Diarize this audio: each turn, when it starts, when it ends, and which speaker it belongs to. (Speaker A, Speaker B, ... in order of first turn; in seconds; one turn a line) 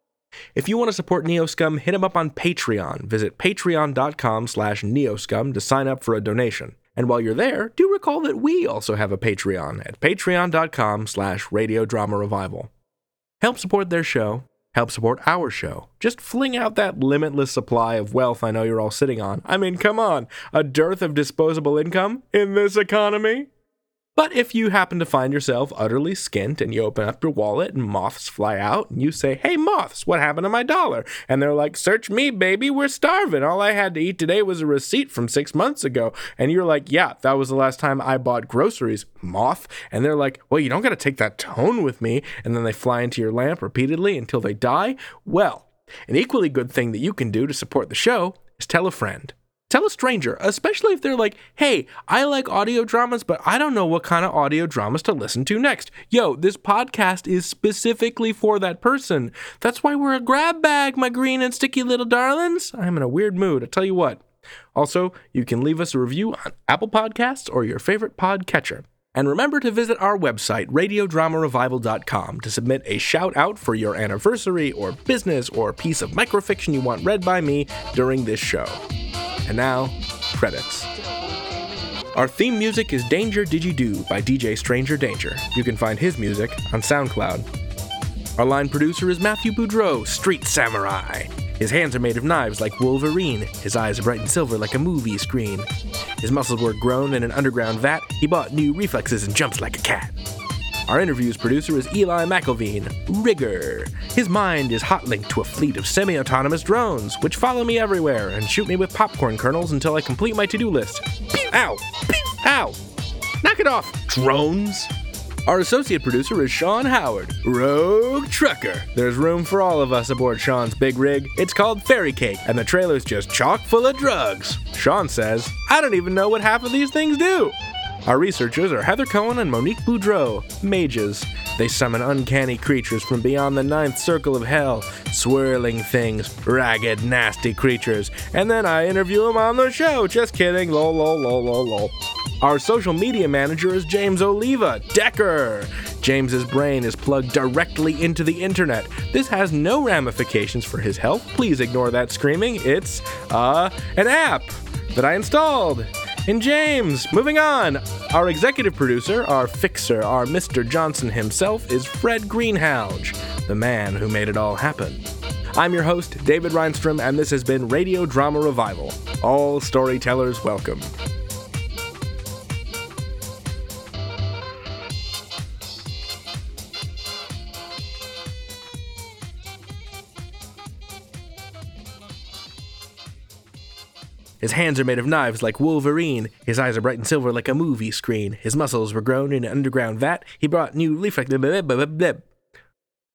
Speaker A: 0.5-12.7
Speaker A: 13.4-23.5
Speaker A: 24.1-64.2
Speaker A: 64.7-78.8
Speaker A: 79.5-80.9
Speaker A: 82.1-87.5
Speaker A: 88.4-95.7
Speaker A: 96.2-100.1
Speaker A: 100.9-112.8
Speaker A: 113.4-114.9
Speaker A: 115.5-170.9
Speaker A: 184.4-192.3